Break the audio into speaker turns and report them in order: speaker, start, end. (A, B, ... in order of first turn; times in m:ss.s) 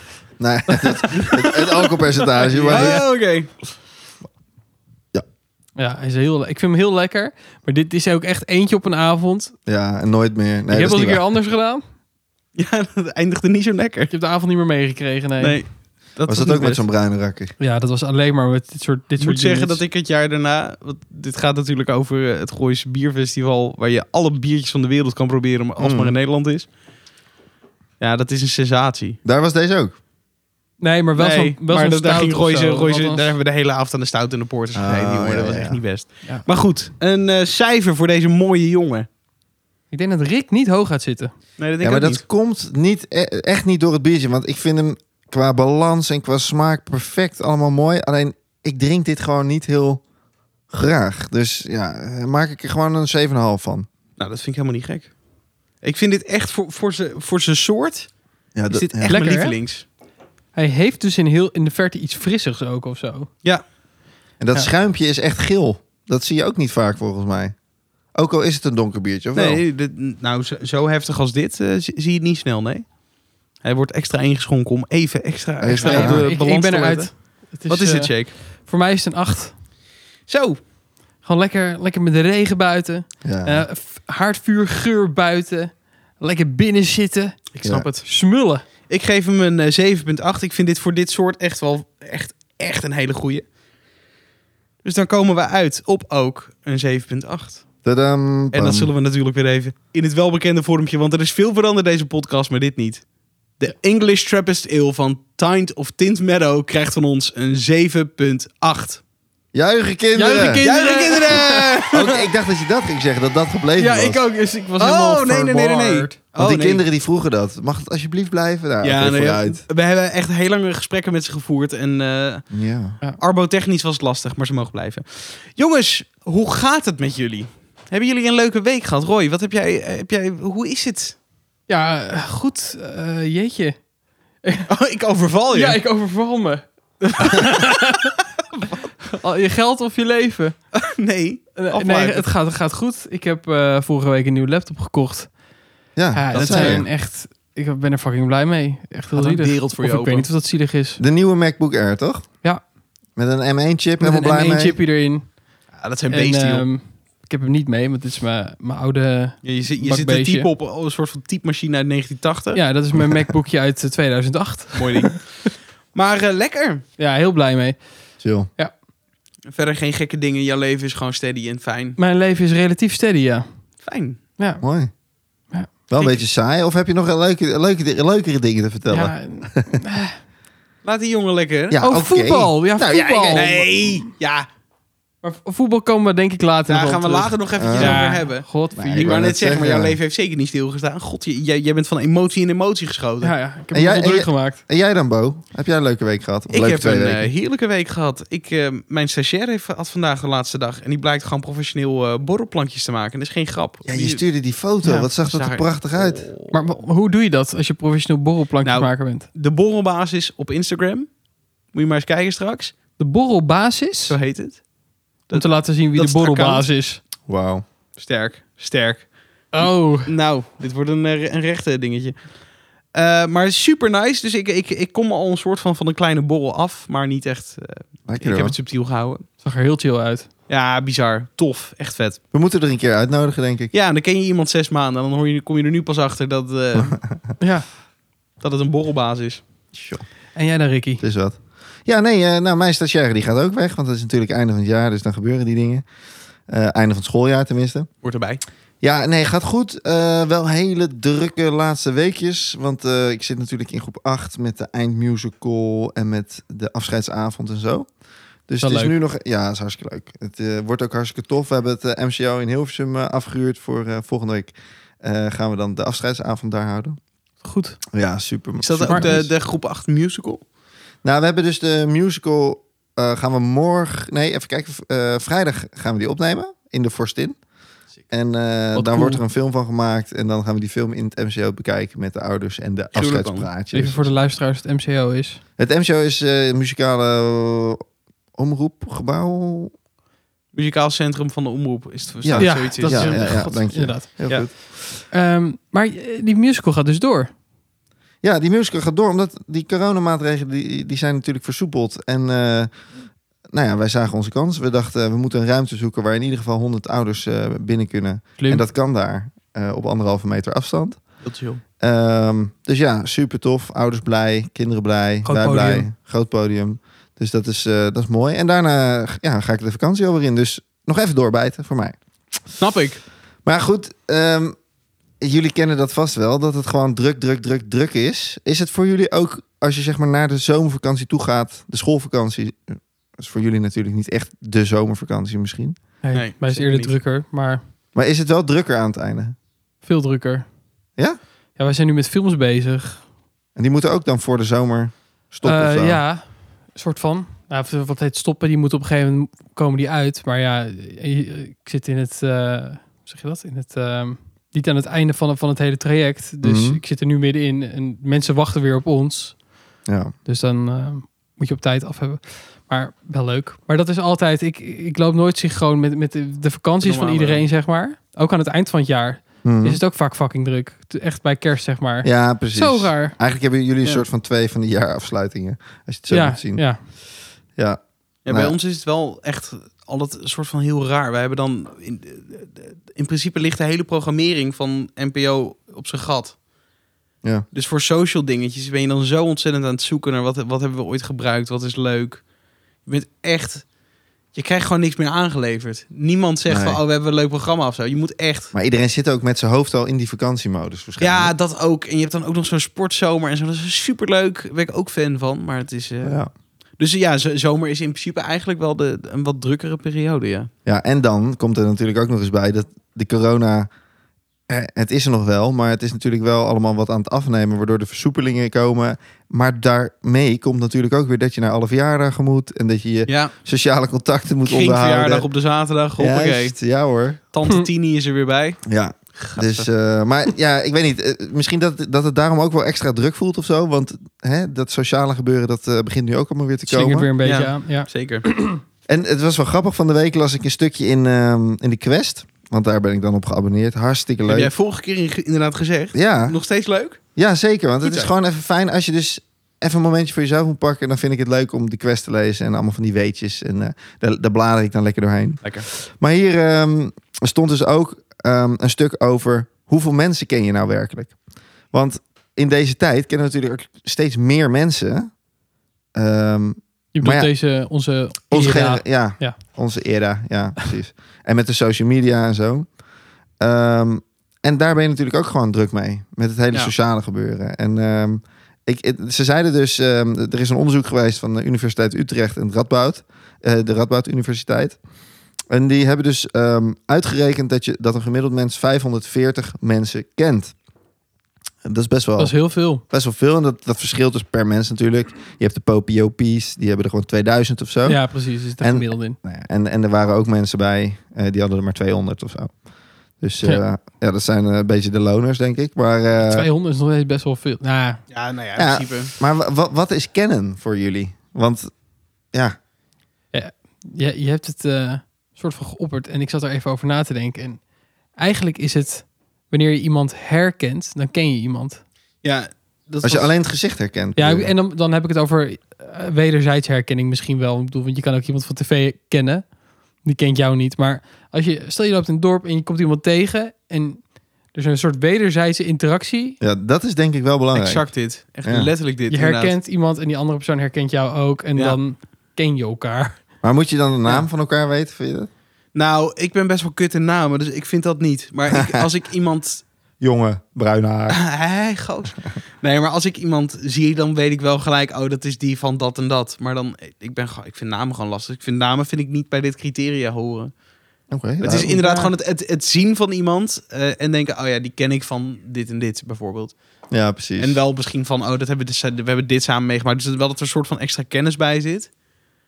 0:00.4-0:03.0 A
0:00.7-0:01.2 B
0:01.1-0:01.9 C
0:02.4-0:03.0 B
0:02.6-0:03.5 C
0:05.8-0:09.5 B
0:09.7-0:11.2 A
0:10.7-0:11.8 B
0:12.5-0:14.1 C
0:14.1-0:15.6 B
0:15.4-0:16.8 C
0:16.3-0:17.5 A
0:17.6-0:19.8 B
0:19.2-0:26.7 C
0:25.8-0:26.1 A
0:28.0-0:29.2 C
0:29.2-0:29.9 A
0:30.8-0:33.3 B
0:31.2-0:39.1 C
0:34.7-0:35.8 A
0:39.9-0:41.3 B
0:41.6-0:42.2 C
0:41.8-0:50.0 A
0:50.7-0:53.9 A
0:54.2-0:55.1 C
0:55.8-0:58.1 C
0:58.5-0:59.1 A
0:58.7-0:59.8 C
0:59.1-0:59.6 B
1:00.5-1:03.3 B
1:04.4-1:07.5 A
1:08.1-1:09.6 A
1:09.3-1:12.9 C
1:13.6-1:18.3 C
1:15.6-1:16.2 A
1:15.8-1:19.6 B
1:20.3-1:20.6 C
1:21.2-1:27.5 B
1:23.2-1:23.6 A
1:27.5-1:28.2 C
1:28.0-1:28.6 B
1:28.9-1:33.4 C
1:34.8-1:37.6 C
1:37.8-1:38.9 A
1:38.5-1:43.0 C
1:43.6-1:49.0 C
1:49.5-1:50.6 A
1:50.2-1:51.9 B
1:50.6-1:52.2 C
1:51.9-1:54.2 A
1:53.8-1:56.2 B
1:54.8-1:56.8 C
1:56.3-1:59.6 A
1:58.8-2:02.5 C
2:02.5-2:03.0 A
2:03.2-2:11.2 C
2:11.7-2:13.8 B
2:14.4-2:14.7 B
2:14.7-2:15.8 C
2:15.5-2:16.6 B
2:17.0-2:17.6 C
2:17.2-2:18.1 B
2:19.2-2:20.6 B
2:20.7-2:22.3 C
2:21.6-2:25.3 B
2:26.0-2:26.9 A
2:26.1-2:31.0 B
2:26.3-2:26.8 C
2:29.1-2:30.2 C
2:31.0-2:32.3 A
2:33.2-2:34.8 A
2:34.0-2:35.4 B
2:35.7-2:36.6 C
2:36.1-2:40.5 B
2:39.4-2:42.6 C
2:42.5-2:45.2 B
2:44.7-2:46.8 C
2:47.0-2:47.8 B
2:48.2-2:48.5 A
2:49.5-2:52.0 C
2:52.0-2:53.5 B
2:53.8-2:54.2 C
2:54.6-2:54.9 A
2:55.5-2:55.8 B
2:55.9-2:59.8 A
2:58.9-3:00.2 B
3:00.8-3:01.8 C
3:01.7-3:03.7 A
3:01.8-3:03.5 B
3:03.3-3:04.5 C
3:05.2-3:09.2 B
3:06.7-3:08.4 C
3:07.6-3:08.0 A
3:08.7-3:10.0 A
3:09.0-3:13.3 C
3:13.2-3:14.6 B
3:13.7-3:17.3 A
3:16.5-3:24.2 C
3:23.8-3:26.3 A
3:24.8-3:25.1 B
3:25.2-3:26.5 C
3:26.5-3:29.2 B
3:28.6-3:31.1 C
3:31.7-3:32.8 C
3:33.0-3:34.2 B
3:34.1-3:34.6 C
3:35.3-3:36.7 C
3:35.3-3:37.0 B
3:37.3-3:37.6 A
3:38.0-3:39.1 C
3:39.5-3:40.1 B
3:39.6-3:42.2 C
3:42.9-3:49.2 C
3:48.1-3:48.5 A
3:49.4-3:50.3 B
3:50.5-3:52.2 C
3:52.3-3:53.7 A
3:53.7-3:57.0 C
3:57.4-3:57.7 B
3:58.4-3:59.4 C
3:59.7-4:00.0 A
4:00.3-4:01.0 B
4:01.0-4:05.8 A
4:06.5-4:07.9 A
4:08.0-4:08.4 C
4:08.8-4:17.9 A
4:18.5-4:27.0 A
4:18.6-4:18.9 B
4:27.4-4:27.8 B
4:27.9-4:29.3 A
4:28.6-4:30.4 C
4:31.0-4:37.4 A
4:38.1-4:44.1 A
4:38.7-4:39.2 B
4:42.9-4:43.5 C
4:43.7-4:45.4 B
4:45.6-4:47.8 A
4:48.4-4:49.7 A
4:50.5-4:53.6 C
4:52.2-4:54.8 A
4:52.4-4:57.3 B
4:58.2-5:02.7 A
5:03.5-5:11.0 A
5:08.4-5:08.6 B
5:11.2-5:11.6 C
5:11.8-5:22.0 A
5:15.2-5:15.9 B
5:22.6-5:23.0 C
5:23.4-5:24.6 A
5:25.2-5:35.8 A
5:36.0-5:37.6 B
5:36.1-5:36.9 C
5:37.9-5:39.3 A
5:39.8-5:40.5 B
5:41.6-5:43.0 B
5:43.6-5:46.0 A
5:45.4-5:59.4 B
5:56.4-5:56.8 A
5:59.8-6:00.1 A
6:00.2-6:13.1 B
6:06.8-6:07.4 C
6:09.4-6:09.8 A
6:12.0-6:16.9 A
6:16.1-6:16.8 B
6:17.6-6:18.6 A
6:18.2-6:26.4 C
6:27.5-6:32.2 C
6:32.8-6:33.6 C
6:34.3-6:38.5 C
6:36.5-6:36.8 A
6:38.5-6:41.3 A
6:41.0-6:46.2 C
6:46.0-6:46.3 A
6:46.8-6:50.5 C
6:50.6-6:53.7 A
6:54.5-7:05.3 A
7:03.1-7:03.3 C
7:04.4-7:06.6 C
7:06.0-7:07.2 A
7:07.3-7:08.6 C
7:08.6-7:17.1 A
7:09.1-7:09.7 C
7:16.7-7:18.6 B
7:17.2-7:18.2 C
7:18.9-7:24.5 A
7:24.2-7:27.0 C
7:25.9-7:26.4 A
7:27.2-7:41.2 A
7:27.8-7:28.1 C
7:41.7-7:45.1 A
7:45.9-7:47.3 A
7:46.9-7:49.4 B
7:48.3-7:52.7 A
7:53.4-8:04.8 A
8:05.5-8:10.5 A
8:11.6-8:18.1 A
8:12.2-8:12.8 B
8:17.8-8:19.2 B
8:18.6-8:22.5 A
8:23.2-8:26.5 A
8:26.2-8:28.0 B
8:28.1-8:29.1 C
8:28.6-8:31.7 A
8:33.3-8:37.6 B
8:38.2-8:41.8 B
8:42.2-8:43.3 C
8:43.0-8:44.5 A
8:44.2-8:49.4 B
8:50.0-8:56.4 B
8:56.4-8:57.9 A
8:57.5-8:59.5 C
8:58.4-8:58.7 A
8:59.1-9:03.2 B
9:03.4-9:05.3 A
9:05.7-9:09.6 C
9:08.5-9:08.8 A
9:10.0-9:11.2 A
9:11.1-9:20.5 C
9:21.1-9:21.8 A
9:21.4-9:26.5 C
9:21.6-9:22.1 B
9:26.9-9:27.6 A
9:27.4-9:31.9 C